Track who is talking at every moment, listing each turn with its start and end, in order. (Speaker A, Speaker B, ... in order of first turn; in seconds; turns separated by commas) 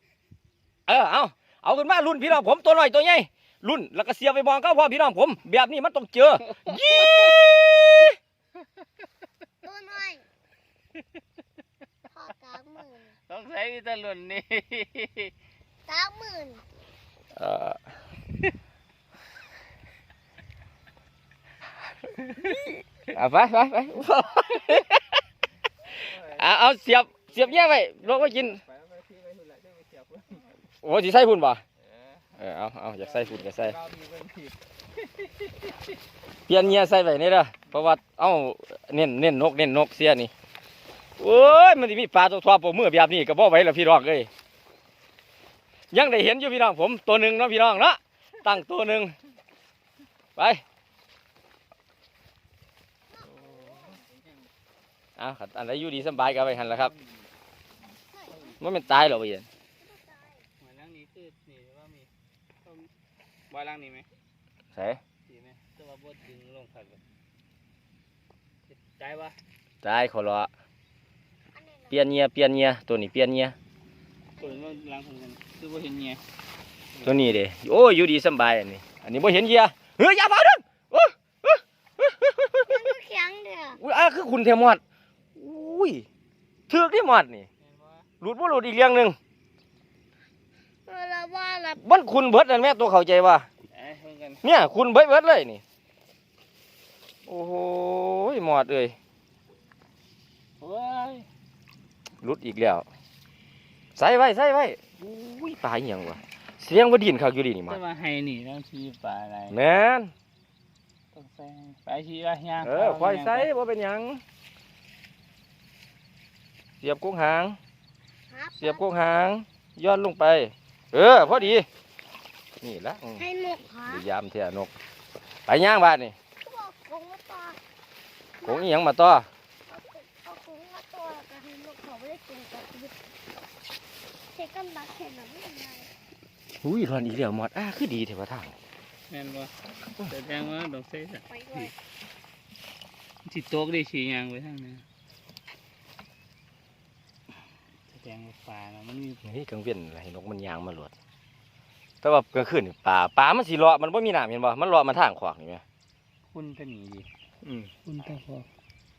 Speaker A: 0.9-8.1, Speaker B: 9.6-10.2, Speaker B: 12.1-13.2, Speaker C: 13.3-15.3, Speaker B: 15.9-16.6, Speaker A: 17.3-17.8, Speaker A: 22.4-25.2, Speaker A: 26.0-28.6, Speaker C: 26.0-26.3, Speaker C: 27.4-30.4, Speaker A: 30.8-31.6, Speaker A: 32.4-33.8, Speaker C: 33.0-34.6, Speaker C: 35.2-35.5, Speaker A: 36.5-40.3, Speaker A: 41.2-44.3, Speaker A: 45.9-49.1, Speaker A: 50.4-50.6, Speaker B: 53.2-54.0, Speaker C: 53.4-54.1, Speaker A: 55.2-56.9, Speaker C: 56.5-57.0, Speaker B: 58.1-58.6, Speaker A: 58.6-59.5, Speaker B: 59.8-60.5, Speaker C: 60.6-62.1, Speaker C: 63.5-64.1, Speaker A: 64.7-65.0, Speaker C: 65.3-67.0, Speaker C: 68.8-69.4, Speaker A: 69.8-70.5, Speaker B: 71.5-72.0, Speaker A: 71.9-73.5, Speaker B: 74.4-74.8, Speaker C: 74.4-76.2, Speaker A: 77.0-82.9, Speaker B: 82.7-83.8, Speaker A: 83.8-84.8, Speaker A: 85.3-86.0, Speaker A: 86.7-87.5, Speaker C: 87.6-88.0, Speaker A: 88.2-89.2, Speaker B: 90.9-91.8, Speaker A: 91.8-93.5, Speaker C: 93.7-94.4, Speaker A: 94.4-95.6, Speaker A: 97.3-98.9, Speaker C: 100.6-101.3, Speaker A: 102.2-102.8, Speaker A: 104.0-107.8, Speaker C: 107.7-109.6, Speaker A: 109.5-110.1, Speaker C: 111.1-113.5, Speaker A: 112.6-114.2, Speaker A: 116.8-117.6, Speaker B: 118.3-118.8, Speaker A: 118.6-121.7, Speaker A: 122.6-123.2, Speaker B: 123.2-124.0, Speaker A: 123.9-124.7, Speaker A: 125.5-126.2, Speaker B: 126.4-127.6, Speaker B: 128.4-128.7, Speaker A: 128.4-129.3, Speaker B: 129.7-132.9, Speaker B: 134.3-135.9, Speaker A: 136.6-138.5, Speaker C: 139.1-139.5, Speaker C: 140.0-141.2, Speaker B: 141.3-141.7, Speaker C: 143.2-144.8, Speaker C: 147.9-149.2, Speaker A: 149.2-150.9, Speaker A: 152.0-155.6, Speaker C: 156.3-157.1, Speaker A: 157.4-157.7, Speaker C: 157.8-158.5